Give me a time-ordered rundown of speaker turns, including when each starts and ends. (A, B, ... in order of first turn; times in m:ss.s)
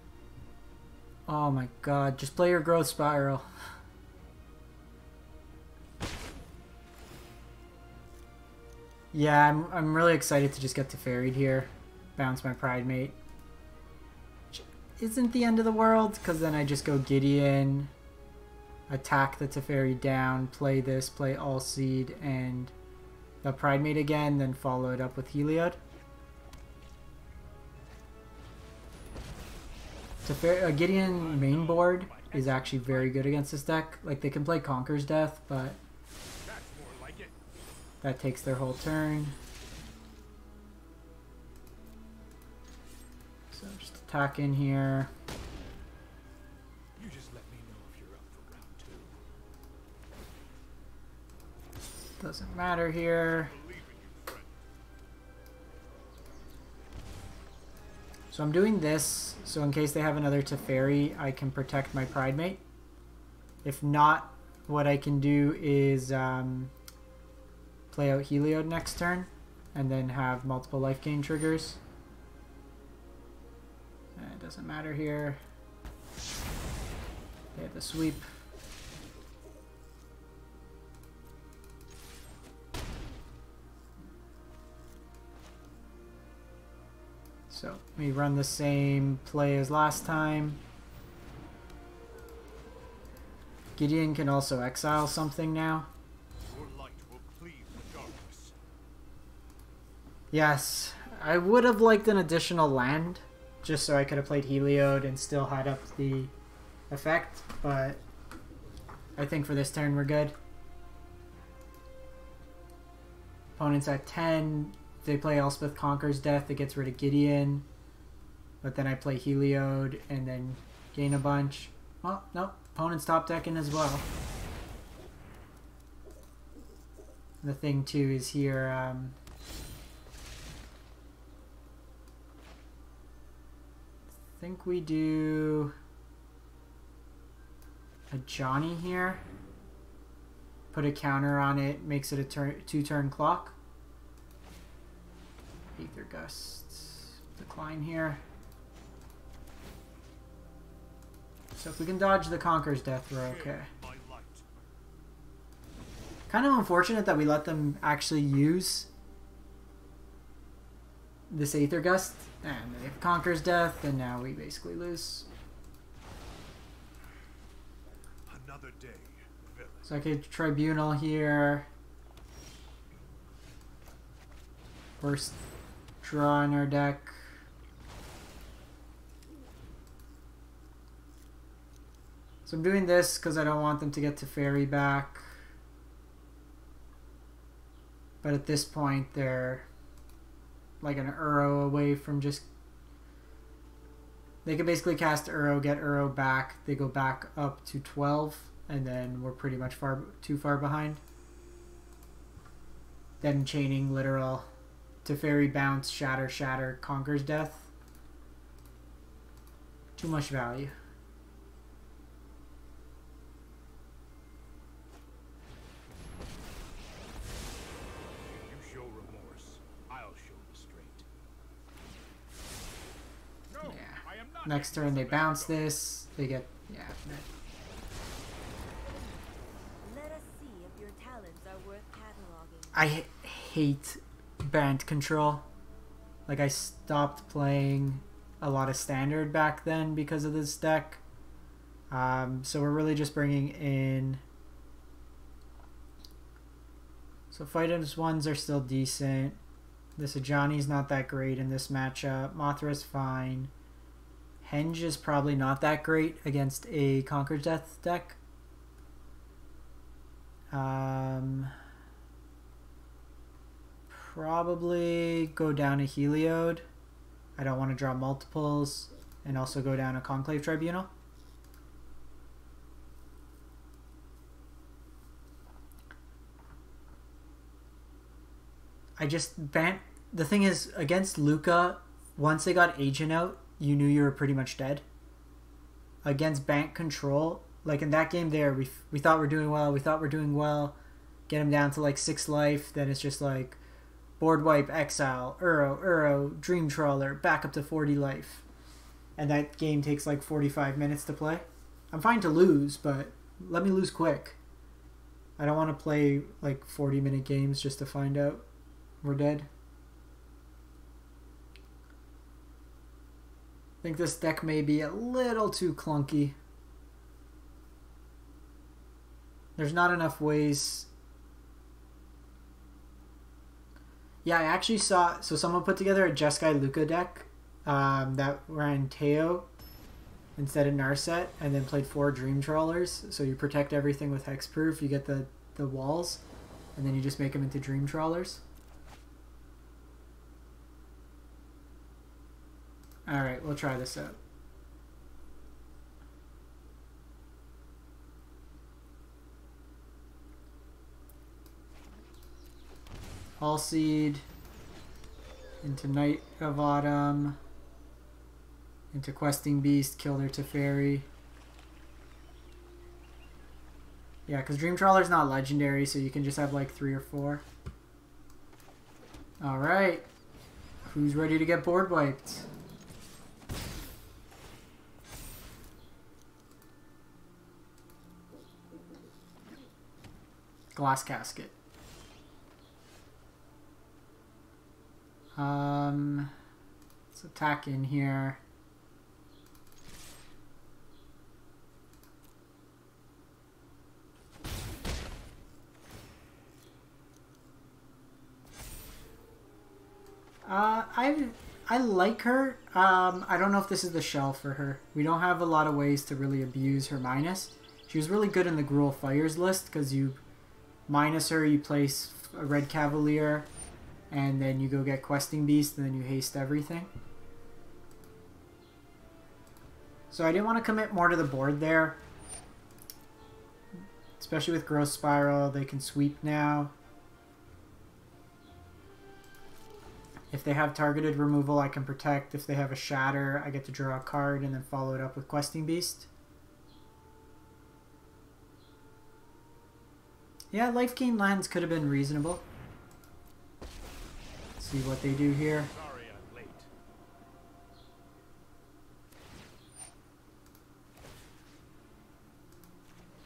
0:01.3-0:03.5 A
0:09.1-0:13.2 A
0:14.5-0:17.9 A
0:18.9-0:22.7 A
0:23.4-0:25.8 A
0:30.3-0:35.8 A
0:30.8-0:33.4 B
0:36.4-0:37.4 B
0:38.0-0:39.4 A
0:43.5-0:45.1 A
0:47.0-0:49.2 B
0:52.2-0:53.6 A
0:53.3-0:54.6 B
0:58.3-1:02.6 A
1:03.6-1:06.7 A
1:07.9-1:11.8 A
1:14.2-1:15.4 A
1:17.6-1:18.3 A
1:27.5-1:30.6 A
1:33.8-1:35.9 A
1:36.4-1:38.6 B
1:40.3-1:46.3 A
1:46.9-1:48.0 A
1:49.2-1:50.4 A
1:53.6-1:57.7 A
1:58.6-2:04.1 A
2:07.4-2:09.2 A
2:14.4-2:15.7 A
2:18.1-2:19.2 A
2:20.7-2:23.6 A
2:25.8-2:28.2 A
2:31.6-2:33.7 A
2:33.2-2:34.4 B
2:36.3-2:38.9 A
2:41.3-2:45.3 A
2:48.3-2:49.9 B
2:49.9-2:51.7 A
2:55.0-2:55.4 A
2:56.0-2:57.2 A
3:02.5-3:05.2 A
3:08.2-3:09.7 A
3:10.8-3:12.5 A
3:14.4-3:21.0 A
3:23.2-3:24.5 A
3:25.0-3:27.7 A
3:30.0-3:30.7 A
3:38.3-3:41.1 B
3:43.5-3:45.8 B
3:43.6-3:47.2 A
3:49.8-3:52.8 C
3:52.7-3:55.5 A
3:56.3-4:01.0 A
4:01.9-4:04.2 A
4:07.3-4:09.4 A
4:10.0-4:13.5 A
4:14.4-4:18.2 A
4:20.5-4:21.5 A
4:23.9-4:26.6 A
4:27.4-4:30.9 A
4:39.0-4:44.8 A
4:46.0-4:50.8 A
4:51.3-4:53.6 A
4:54.2-4:58.4 A
4:59.2-5:04.4 A
5:05.4-5:08.4 A
5:09.0-5:09.5 A
5:13.8-5:16.4 A
5:19.6-5:20.9 A
5:24.2-5:29.5 A
5:30.4-5:36.2 A
5:36.8-5:38.4 A
5:43.1-5:44.2 A
5:53.4-5:54.2 A
5:55.6-5:57.4 A
5:58.9-6:01.1 A
6:04.3-6:07.4 A
6:09.4-6:10.1 A
6:10.8-6:12.5 A
6:20.8-6:21.5 A
6:25.4-6:26.3 A
6:27.1-6:28.4 A
6:40.4-6:50.2 A
6:50.9-6:53.5 A
6:54.1-6:56.9 A
7:00.1-7:02.0 A
7:04.2-7:06.7 A
7:10.3-7:16.1 A
7:20.5-7:22.4 A
7:24.6-7:25.7 A
7:25.6-7:26.7 B